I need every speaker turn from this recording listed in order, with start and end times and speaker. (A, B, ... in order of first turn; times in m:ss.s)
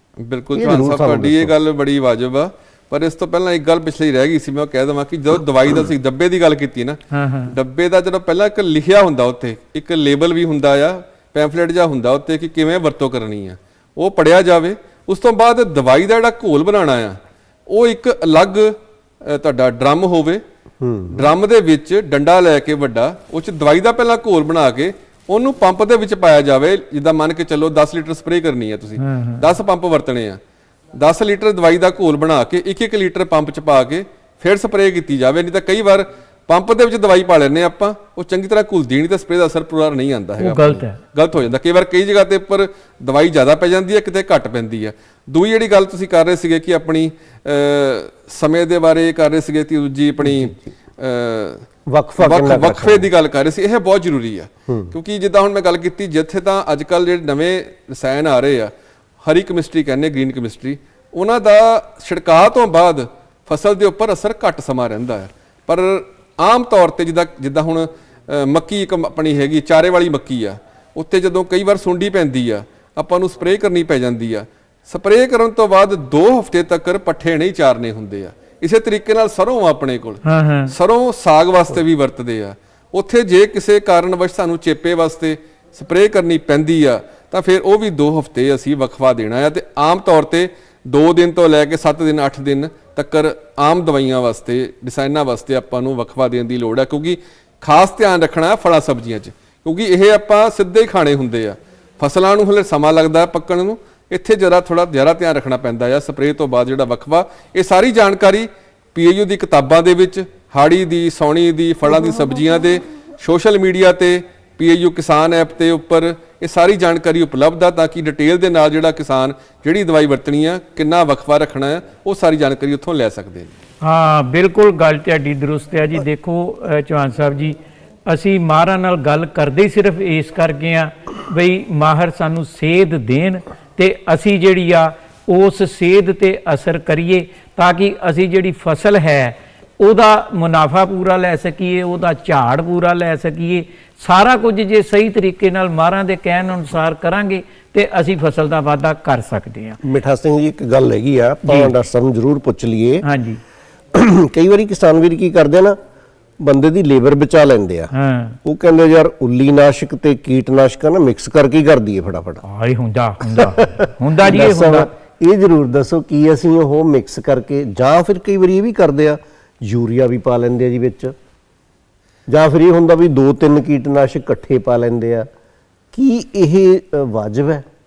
0:00.2-0:20.4 A
0:00.5-0:01.5 B
0:07.1-0:07.6 C
0:20.8-0:21.3 B
0:21.1-0:30.4 A
0:29.0-0:29.4 C
0:30.9-0:51.7 A
0:40.4-0:41.0 C
0:50.2-0:50.5 B
0:51.9-0:53.1 B
0:52.2-2:03.5 A
0:54.7-0:54.9 B
1:20.2-1:20.7 C
2:03.8-2:29.8 C
2:29.8-2:33.0 B
2:31.5-2:31.7 C
2:33.0-2:33.4 C
2:33.9-2:35.8 B
2:36.4-2:37.9 B
2:37.9-2:38.4 C
2:38.4-2:42.4 B
2:42.4-2:44.9 C
2:43.3-2:51.1 B
2:52.3-2:55.3 B
2:55.9-2:57.7 B